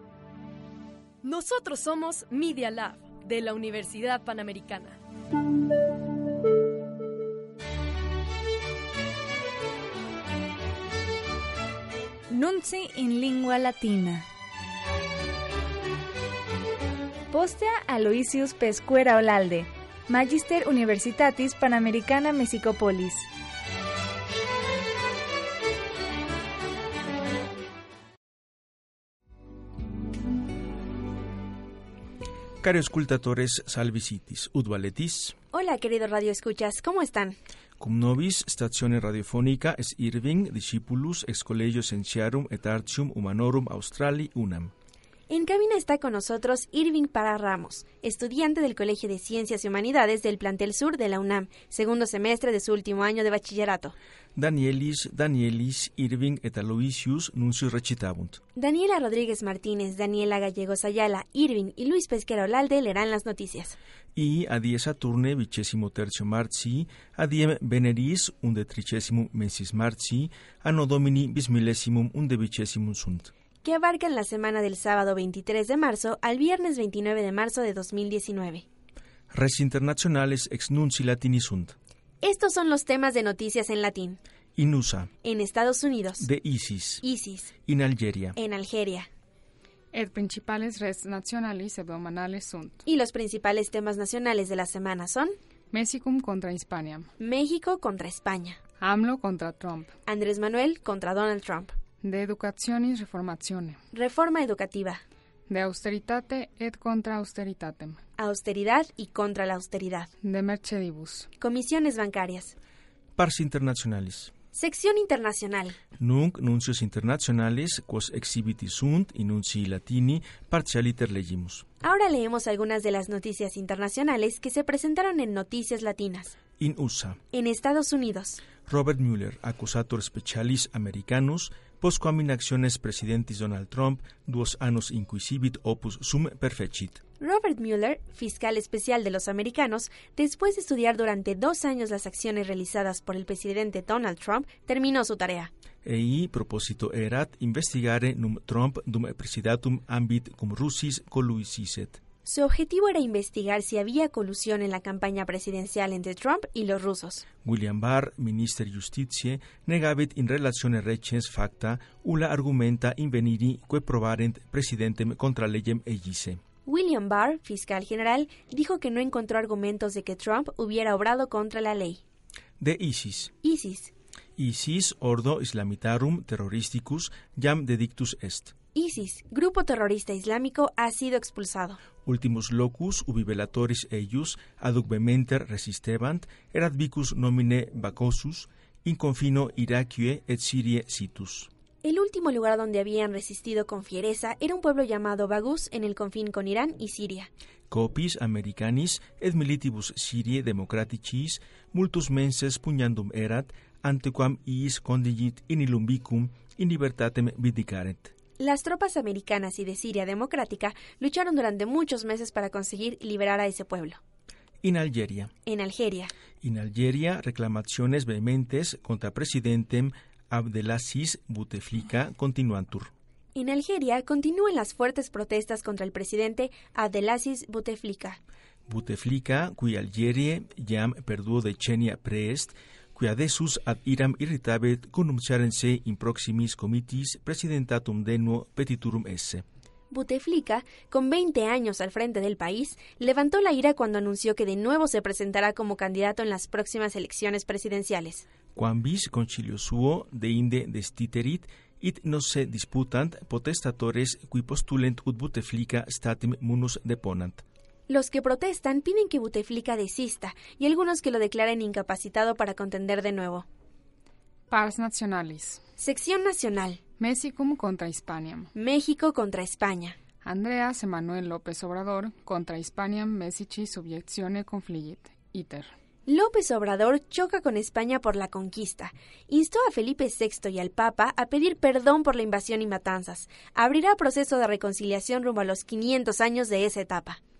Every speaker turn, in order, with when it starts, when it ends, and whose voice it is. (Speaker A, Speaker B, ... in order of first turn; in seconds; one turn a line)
Speaker A: 1.2-5.0
Speaker B: 12.3-14.2
Speaker B: 17.3-23.2
Speaker C: 32.6-35.3
Speaker D: 35.5-37.4
Speaker C: 37.8-44.7
Speaker D: 45.3-53.9
Speaker C: 54.4-58.4
Speaker D: 58.5-63.8
Speaker C: 64.2-73.3
Speaker D: 73.6-78.6
Speaker C: 79.3-81.7
Speaker D: 82.2-84.2
Speaker C: 84.6-85.1
Speaker D: 85.2-86.2
Speaker C: 86.2-87.0
Speaker D: 87.0-87.5
Speaker C: 87.6-88.4
Speaker D: 88.3-89.1
Speaker E: 89.9-92.8
Speaker D: 92.8-95.3
Speaker E: 95.7-97.1
Speaker D: 97.2-98.6
Speaker E: 98.8-99.9
Speaker D: 100.0-101.7
Speaker E: 102.0-103.8
Speaker D: 103.9-105.0
Speaker E: 105.5-108.0
Speaker D: 108.2-110.1
Speaker E: 110.2-111.3
Speaker D: 111.4-112.5
Speaker C: 113.2-114.3
Speaker D: 114.5-115.8
Speaker C: 116.0-121.6
Speaker D: 121.8-126.4
Speaker C: 126.6-127.2
Speaker D: 127.3-128.4
Speaker C: 128.6-137.0
Speaker D: 137.2-145.5
Speaker C: 145.8-152.0
Speaker D: 152.2-157.2
Speaker C: 157.4-166.4
Speaker D: 166.7-172.0
Speaker C: 172.6-173.3
Speaker D: 173.4-173.9
Speaker C: 174.4-178.5
Speaker D: 178.7-181.8
Speaker C: 182.0-191.5
Speaker D: 191.8-197.3
Speaker C: 197.7-208.1
Speaker D: 208.4-214.0
Speaker C: 214.6-215.3
Speaker D: 215.4-216.1
Speaker C: 216.4-222.9
Speaker D: 223.3-228.2
Speaker C: 228.7-239.4
Speaker D: 239.9-248.2
Speaker C: 248.5-257.4
Speaker D: 257.9-263.4
Speaker E: 264.5-265.6
Speaker D: 265.8-266.8
Speaker E: 267.0-268.5
Speaker D: 268.5-270.0
Speaker E: 270.2-275.7
Speaker D: 276.1-287.2